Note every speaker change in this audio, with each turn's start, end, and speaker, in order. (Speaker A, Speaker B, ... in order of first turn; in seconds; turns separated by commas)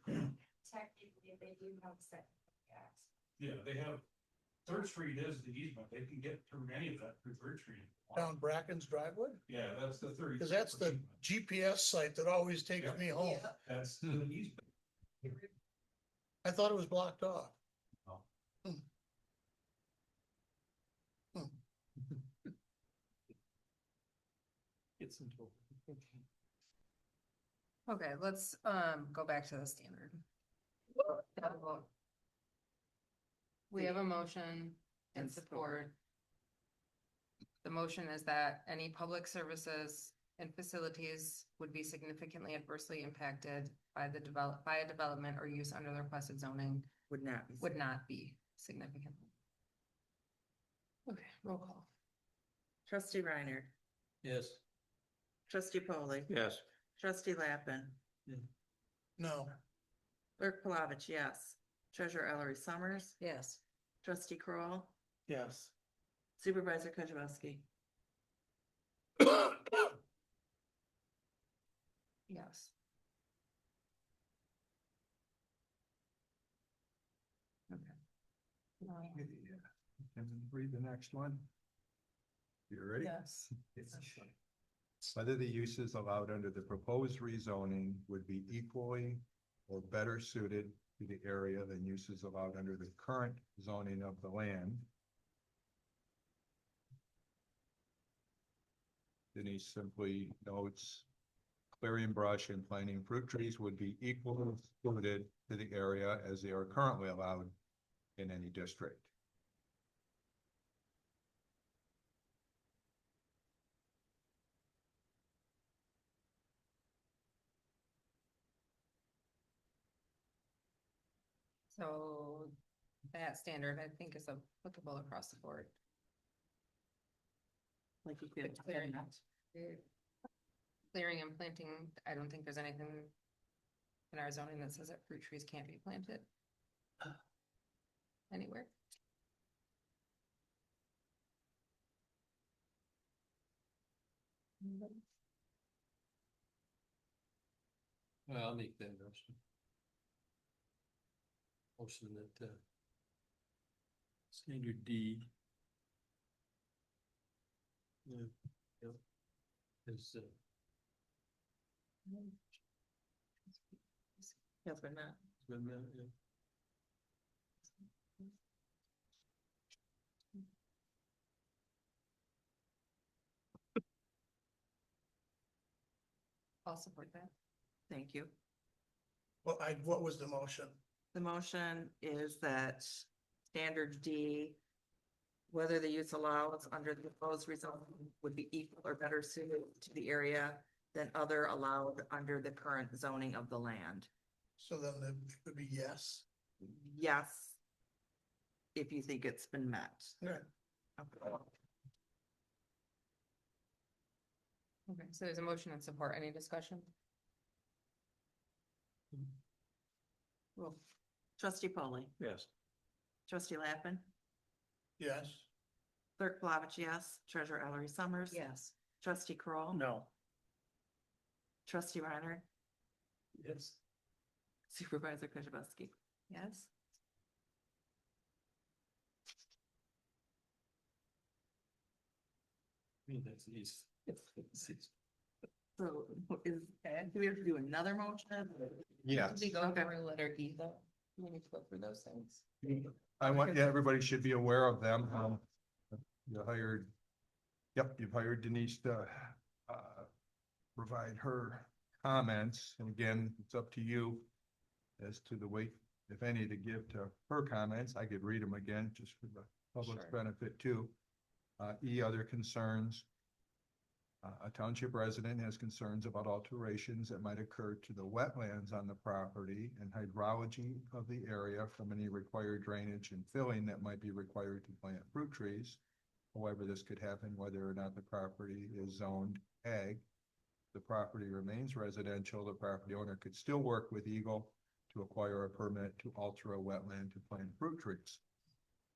Speaker A: 0.6-3.0, Speaker B: 3.4-4.0, Speaker B: 4.7-8.3, Speaker C: 8.2-9.4, Speaker B: 9.5-11.2, Speaker C: 10.4-13.6, Speaker B: 13.7-14.6, Speaker C: 16.4-17.6, Speaker D: 25.0-26.0, Speaker E: 27.9-30.2, Speaker E: 31.1-31.9, Speaker E: 33.7-36.0, Speaker F: 35.2-35.7, Speaker E: 37.6-46.9, Speaker F: 47.1-47.8, Speaker E: 47.6-49.3, Speaker E: 51.1-51.9, Speaker F: 52.9-53.7, Speaker D: 54.2-54.6, Speaker F: 55.5-56.3, Speaker D: 56.3-56.6, Speaker F: 57.0-58.0, Speaker C: 59.2-59.6, Speaker F: 60.4-63.2, Speaker E: 63.2-63.6, Speaker F: 64.0-65.0, Speaker C: 65.3-65.7, Speaker F: 66.4-67.7, Speaker E: 72.3-72.7, Speaker E: 77.7-78.0, Speaker E: 78.8-79.3, Speaker G: 79.1-81.5, Speaker G: 82.7-84.3, Speaker E: 83.0-83.5, Speaker G: 85.1-94.9, Speaker G: 99.3-101.1, Speaker G: 101.7-107.6, Speaker G: 108.2-109.1, Speaker E: 121.7-122.5, Speaker E: 123.1-125.8, Speaker F: 128.1-129.1, Speaker E: 128.4-129.8, Speaker E: 130.9-133.1, Speaker E: 134.1-136.3, Speaker E: 138.3-138.7, Speaker E: 144.6-145.0, Speaker D: 148.3-149.4, Speaker D: 151.8-152.6, Speaker D: 154.3-155.3, Speaker D: 158.1-159.0, Speaker D: 159.9-160.4, Speaker E: 162.1-162.4, Speaker E: 163.5-164.4, Speaker F: 164.7-165.2, Speaker D: 165.4-166.1, Speaker E: 176.7-177.3, Speaker F: 177.9-178.3, Speaker C: 179.4-180.8, Speaker F: 181.1-184.6, Speaker F: 185.5-194.1, Speaker C: 194.6-196.3, Speaker F: 196.6-197.6, Speaker F: 198.8-200.2, Speaker F: 201.0-201.5, Speaker E: 204.9-206.9, Speaker F: 211.4-212.2, Speaker D: 212.2-212.5, Speaker F: 213.3-214.1, Speaker C: 215.0-215.5, Speaker F: 216.2-218.4, Speaker E: 218.3-218.8, Speaker F: 219.0-219.8, Speaker D: 219.8-220.1, Speaker F: 221.7-222.5, Speaker D: 223.4-223.8, Speaker F: 224.7-225.9, Speaker E: 226.3-226.7, Speaker D: 233.1-234.9, Speaker F: 235.8-239.9, Speaker G: 239.0-239.4, Speaker E: 239.1-242.4, Speaker G: 242.6-245.4, Speaker E: 243.3-243.5, Speaker G: 246.2-246.9, Speaker G: 247.8-250.1, Speaker G: 250.8-254.3, Speaker G: 255.0-260.9, Speaker E: 259.8-260.2, Speaker G: 261.6-263.1, Speaker G: 264.2-275.8, Speaker G: 276.3-280.1, Speaker G: 280.7-288.2